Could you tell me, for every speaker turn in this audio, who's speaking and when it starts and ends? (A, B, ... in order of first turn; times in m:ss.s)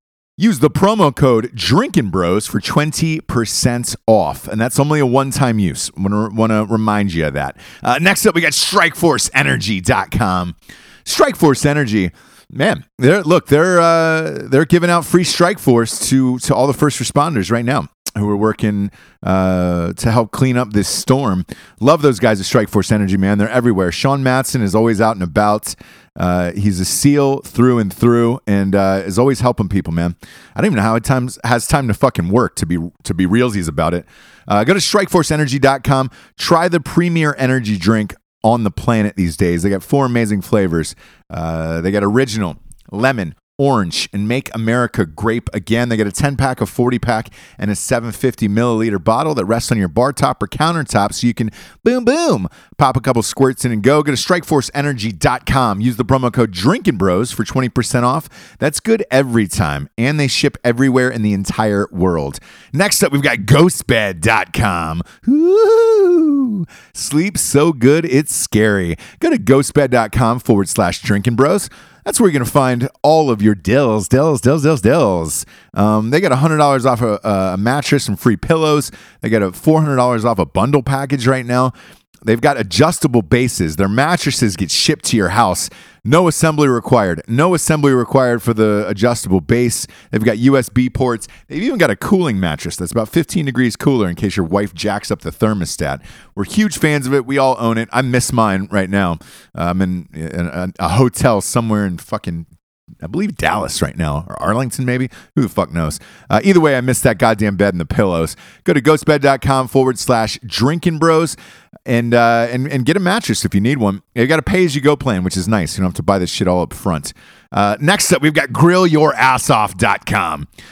0:00.4-1:21.7 A
1:22.2-1:42.4 A
1:43.0-2:00.5 A